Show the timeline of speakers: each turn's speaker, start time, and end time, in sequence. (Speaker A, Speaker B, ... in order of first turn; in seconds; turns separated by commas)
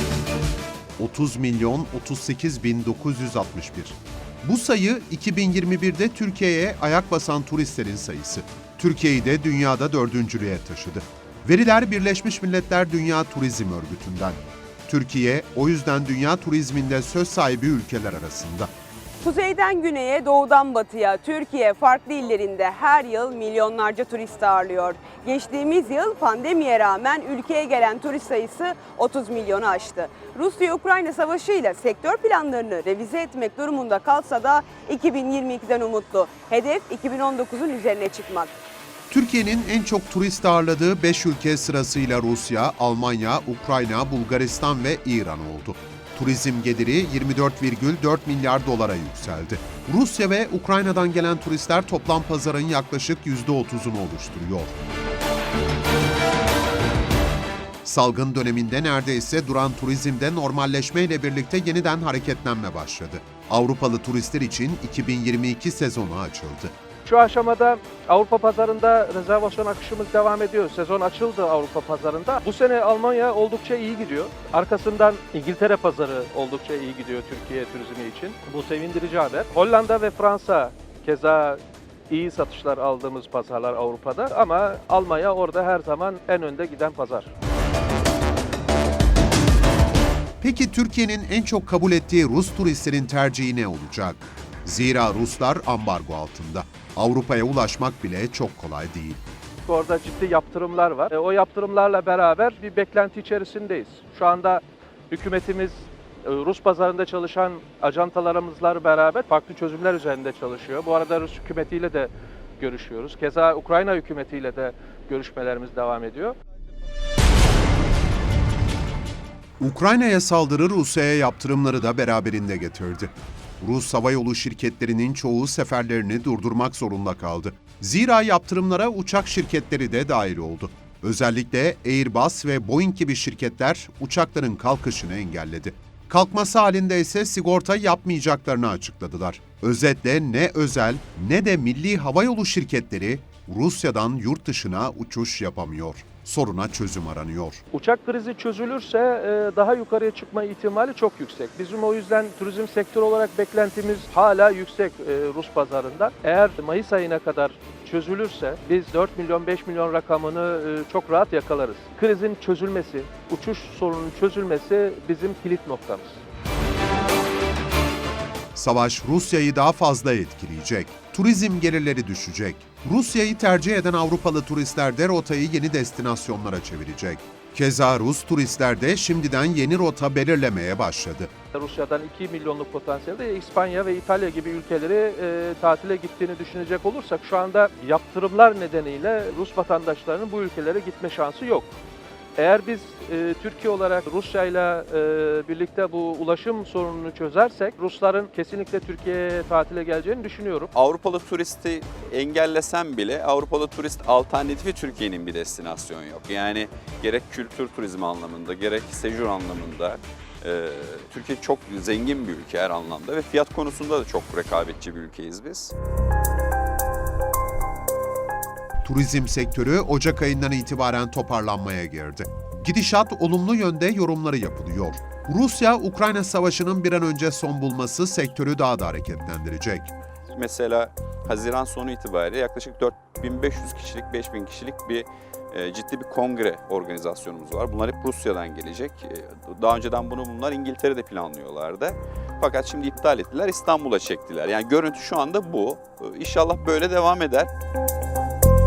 Speaker A: 1.0-18.7, Speaker B: 19.2-38.5, Speaker A: 39.1-54.7, Speaker A: 57.8-66.7, Speaker C: 67.0-87.3, Speaker A: 90.4-99.2, Speaker C: 99.6-116.4, Speaker A: 119.6-147.6, Speaker C: 147.7-166.2, Speaker A: 168.5-181.3, Speaker C: 181.5-191.8, Speaker C: 192.4-200.7, Speaker D: 200.7-215.7, Speaker A: 218.8-229.9, Speaker D: 230.3-247.5